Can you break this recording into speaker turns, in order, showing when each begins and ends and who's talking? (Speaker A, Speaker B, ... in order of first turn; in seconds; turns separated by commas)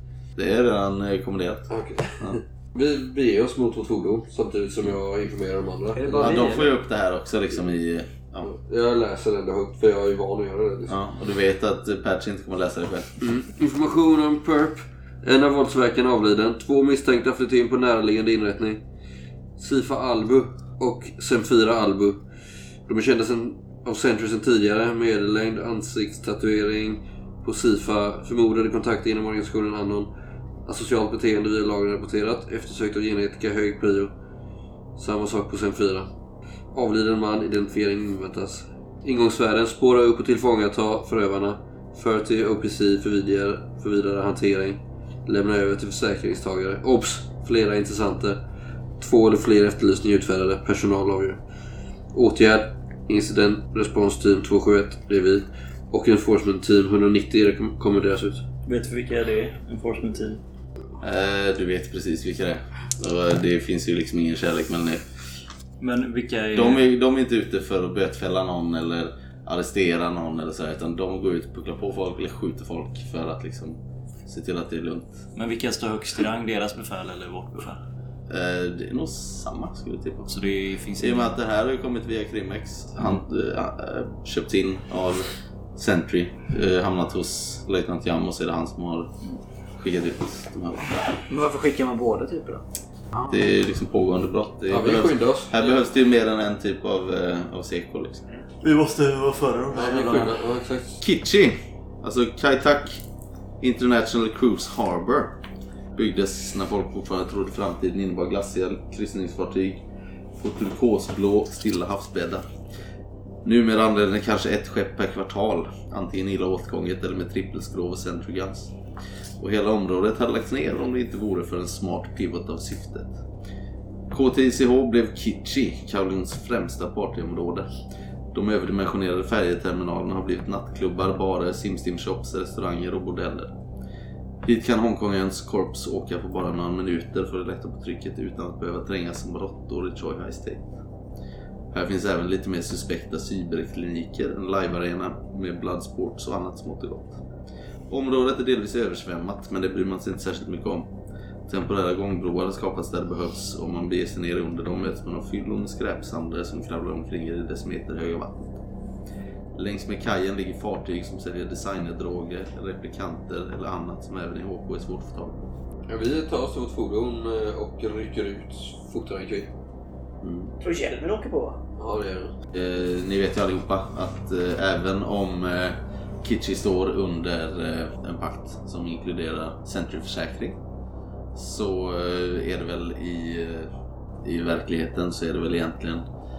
Speaker A: 0.4-1.7, Speaker B: 1.7-6.6, Speaker C: 5.9-6.7, Speaker A: 6.2-8.5, Speaker B: 8.4-11.0, Speaker A: 10.9-13.2, Speaker B: 13.2-18.8, Speaker B: 19.6-22.2, Speaker B: 22.9-30.1, Speaker B: 30.7-34.1, Speaker B: 35.0-36.1, Speaker B: 36.7-48.4, Speaker B: 49.0-51.4, Speaker B: 52.1-58.4, Speaker D: 58.6-60.4, Speaker A: 61.0-65.0, Speaker D: 65.8-66.8, Speaker A: 66.5-75.2, Speaker D: 75.3-77.8, Speaker A: 78.3-80.3, Speaker D: 80.3-81.3, Speaker A: 81.0-89.1, Speaker A: 89.8-91.0, Speaker C: 91.3-92.6, Speaker A: 93.3-98.2, Speaker B: 94.7-95.5, Speaker D: 98.6-100.4, Speaker B: 99.7-101.0, Speaker A: 101.0-103.0, Speaker A: 103.6-105.4, Speaker A: 106.0-109.8, Speaker A: 110.4-112.4, Speaker A: 113.4-118.7, Speaker A: 119.4-123.2, Speaker A: 124.1-127.7, Speaker A: 128.3-133.5, Speaker A: 134.4-140.7, Speaker A: 141.7-147.2, Speaker A: 147.9-150.9, Speaker A: 151.5-158.6, Speaker A: 159.6-165.4, Speaker B: 165.9-169.5, Speaker A: 170.2-170.6, Speaker C: 170.6-171.6, Speaker B: 171.8-172.3, Speaker A: 172.5-180.6, Speaker A: 181.3-183.7, Speaker A: 184.2-186.1